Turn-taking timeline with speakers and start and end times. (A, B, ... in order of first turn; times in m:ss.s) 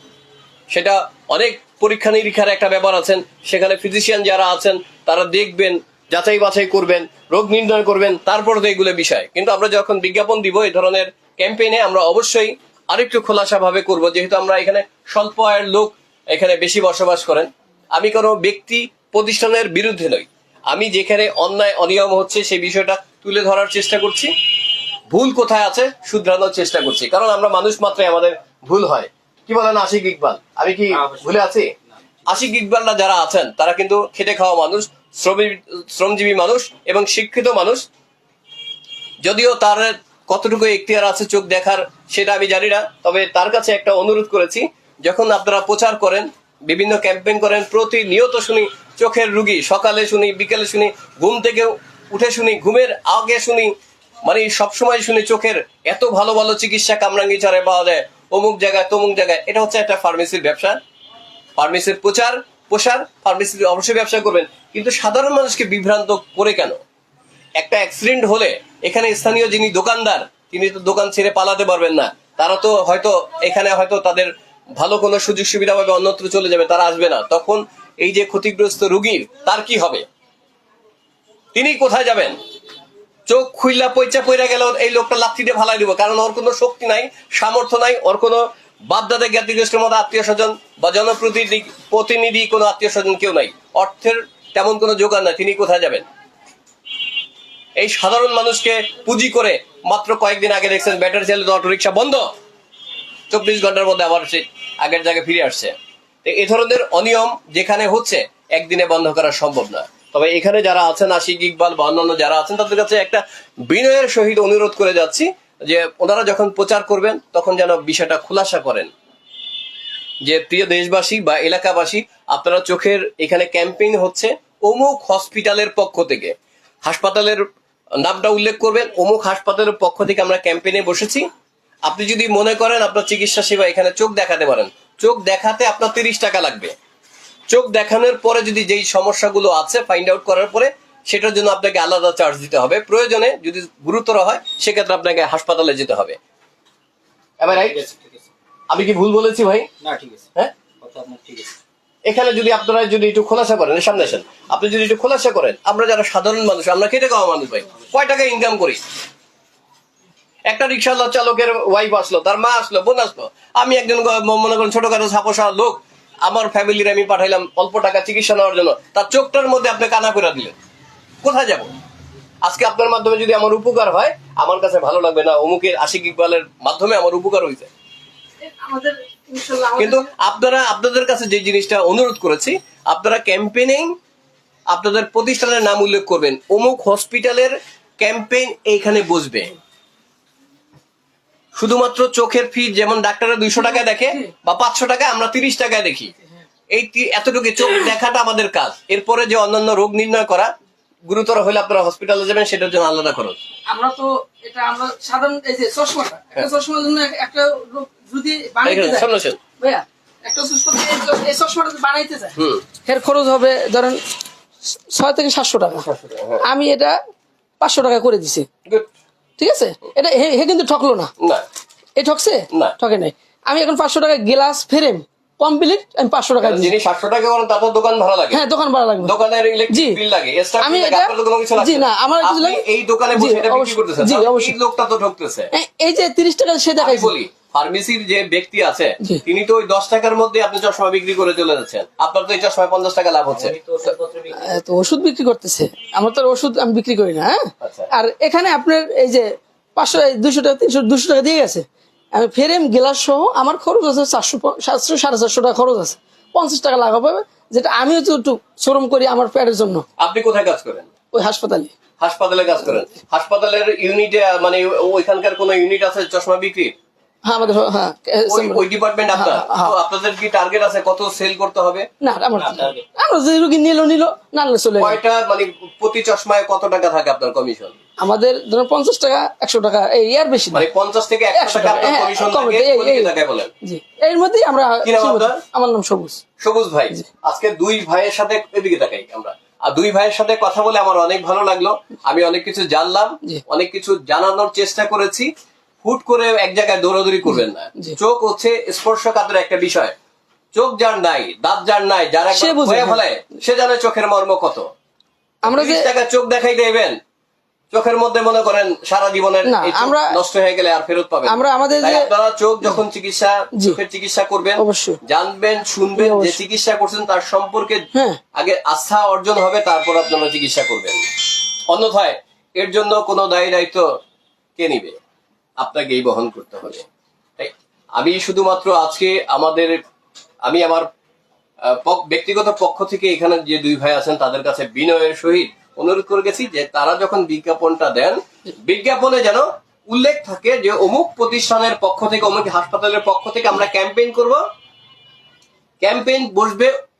0:00.7-0:24.3 A
0:25.1-0:31.7 A
0:30.9-0:31.4 B
0:32.3-0:37.8 A
0:39.2-0:53.7 A
0:54.2-1:00.8 A
1:01.6-1:06.8 A
1:07.6-1:20.0 A
1:21.5-1:22.4 A
1:23.3-1:36.0 A
1:37.8-1:42.3 A
1:43.3-1:58.9 A
2:00.2-2:07.4 A
2:08.0-2:11.2 A
2:11.9-2:16.7 A
2:17.5-2:26.2 A
2:27.4-2:27.8 A
2:27.5-2:28.2 B
2:28.7-2:29.7 A
2:29.8-2:30.3 B
2:30.8-2:31.5 B
2:32.1-2:38.8 A
2:40.5-2:50.5 A
2:51.2-2:51.7 A
2:52.4-2:57.7 A
2:58.4-3:00.1 C
2:59.8-3:04.0 A
3:04.7-3:09.5 A
3:11.5-3:16.1 A
3:13.6-3:14.2 C
3:16.7-3:20.5 A
3:21.0-3:23.4 A
3:23.7-3:34.0 C
3:28.6-3:29.4 A
3:32.4-3:32.7 A
3:34.9-3:35.8 C
3:35.7-3:36.4 A
3:36.4-3:37.0 C
3:37.6-3:38.5 C
3:39.4-3:41.1 C
3:42.0-3:46.7 C
3:46.4-3:48.4 A
3:48.3-3:49.1 C
3:49.0-3:55.5 A
3:49.7-3:50.0 C
3:50.6-3:52.6 C
3:53.1-3:54.6 C
3:55.5-3:57.1 C
3:56.8-4:03.9 A
4:03.3-4:04.6 B
4:04.4-4:19.8 C
4:07.6-4:07.9 A
4:20.0-4:20.9 A
4:21.1-4:21.7 C
4:22.0-4:26.8 A
4:27.2-4:29.7 C
4:28.3-4:31.9 A
4:32.0-4:35.0 C
4:32.4-4:32.8 B
4:34.8-4:37.8 A
4:38.0-4:40.6 C
4:40.5-4:43.5 A
4:41.4-4:43.1 C
4:43.6-4:46.2 C
4:44.8-4:45.4 A
4:46.4-4:55.3 A
4:55.8-5:00.0 A
5:00.5-5:04.7 A
5:02.3-5:03.0 C
5:05.4-5:05.9 C
5:05.5-5:07.0 A
5:07.7-5:21.0 A
5:09.4-5:10.2 C
5:11.3-5:12.1 C
5:14.6-5:15.0 C
5:16.0-5:16.4 C
5:17.9-5:18.2 C
5:21.7-5:23.9 A
5:24.6-5:25.0 A
5:25.6-5:26.9 A
5:27.4-5:29.8 A
5:30.4-5:30.9 A
5:31.7-5:44.4 A
5:45.8-5:46.7 A